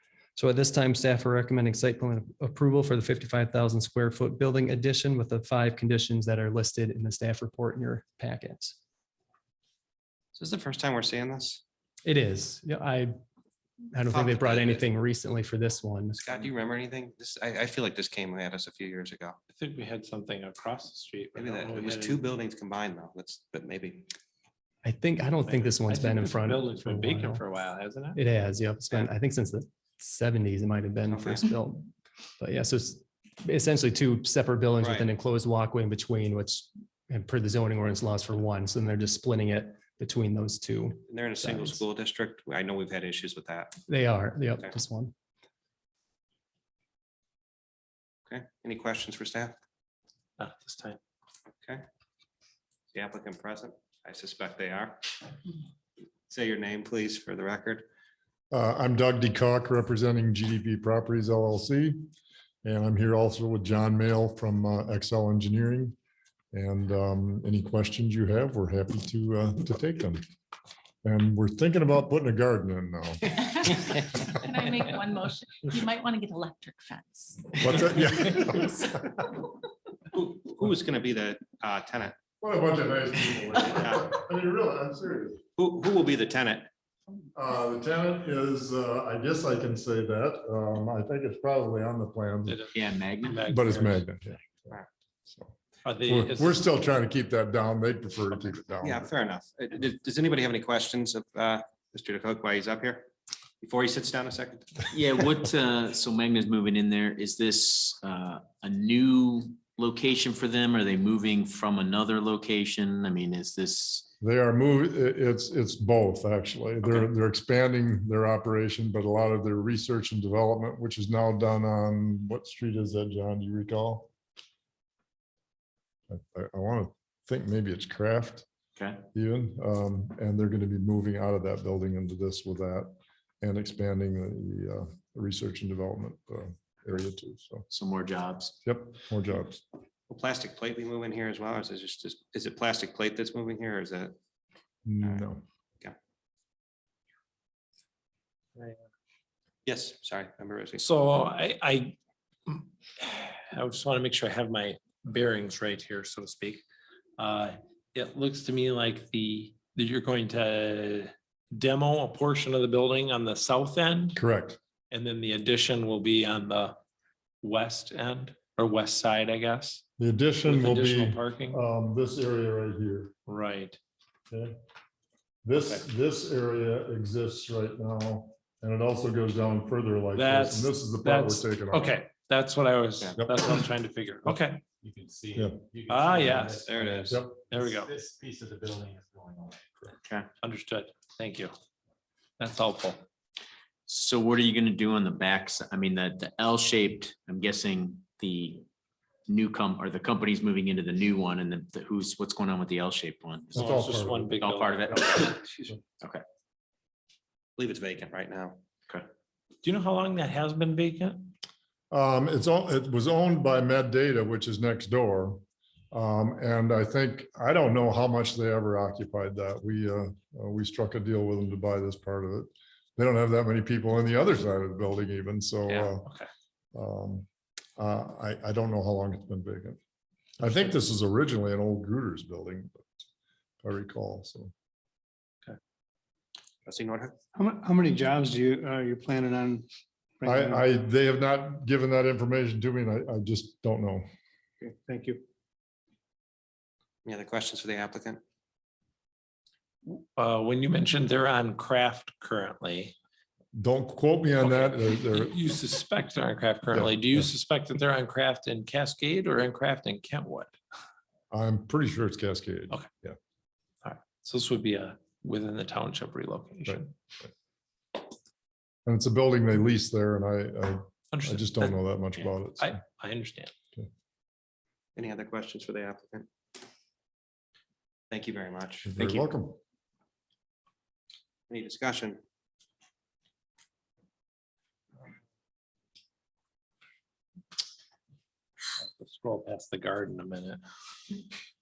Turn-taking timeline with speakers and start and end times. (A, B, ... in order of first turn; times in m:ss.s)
0:00.4-0:08.8 A
0:10.4-0:11.6 B
0:12.0-0:13.1 A
0:13.9-0:16.4 A
0:14.1-0:14.8 B
0:16.2-0:19.4 B
0:19.5-0:22.2 C
0:21.4-0:24.1 B
0:24.8-0:27.4 A
0:25.4-0:28.2 C
0:28.1-0:41.8 A
0:31.1-0:31.4 B
0:34.8-0:35.1 B
0:41.1-0:43.8 B
0:43.9-0:45.1 A
0:48.3-0:49.6 B
0:50.4-0:51.0 C
0:52.9-0:55.0 B
0:56.3-0:57.8 B
0:58.5-1:02.0 D
1:02.6-1:06.0 D
1:06.5-1:10.2 D
1:11.0-1:14.0 D
1:14.4-1:19.0 E
1:17.6-1:19.2 D
1:20.1-1:22.2 B
1:22.4-1:25.4 D
1:23.8-1:24.1 B
1:25.6-1:26.7 B
1:27.3-1:32.7 D
1:32.5-1:34.1 C
1:32.7-1:33.4 F
1:33.4-1:39.1 D
1:35.8-1:36.6 C
1:38.8-1:43.1 B
1:43.6-1:44.9 B
1:44.9-1:54.1 F
1:54.2-2:04.1 D
2:06.1-2:08.4 D
2:08.8-2:09.0 F
2:09.1-2:17.7 D
2:17.7-2:18.5 F
2:18.6-2:19.6 D
2:20.1-2:24.1 B
2:24.8-2:25.4 D
2:29.7-2:30.8 B
2:30.8-2:36.6 C
2:37.2-2:44.2 C
2:44.1-2:44.6 D
2:44.9-2:46.8 C
2:47.4-2:49.8 C
2:50.0-2:53.1 D
2:50.4-2:51.6 C
2:53.3-2:53.8 C
2:55.4-3:02.0 D
3:00.1-3:04.6 C
3:03.2-3:03.7 D
3:04.8-3:09.7 G
3:05.3-3:05.6 D
3:05.9-3:07.9 C
3:06.7-3:07.0 B
3:10.4-3:11.5 C
3:12.4-3:13.0 C
3:13.9-3:18.6 F
3:19.3-3:23.7 F
3:23.5-3:24.4 D
3:23.5-3:25.8 C
3:24.4-3:25.4 F
3:27.6-3:28.6 B
3:29.6-3:31.3 C
3:31.9-3:46.1 D
3:46.8-3:47.2 D
3:47.8-3:49.8 D
3:50.4-3:52.8 D
3:53.6-3:54.5 D
3:56.7-3:57.1 B
3:57.3-3:59.7 H
4:00.2-4:00.7 H
4:00.2-4:04.0 D
4:04.6-4:05.2 H
4:07.0-4:08.2 B
4:09.8-4:12.9 C
4:13.5-4:15.3 D
4:14.4-4:20.6 C
4:21.3-4:23.2 D
4:23.8-4:26.9 C
4:28.9-4:32.8 D
4:31.1-4:33.5 C
4:35.0-4:36.3 B
4:38.1-4:38.9 B
4:38.8-4:39.6 D
4:41.5-4:42.2 B
4:48.8-4:51.2 C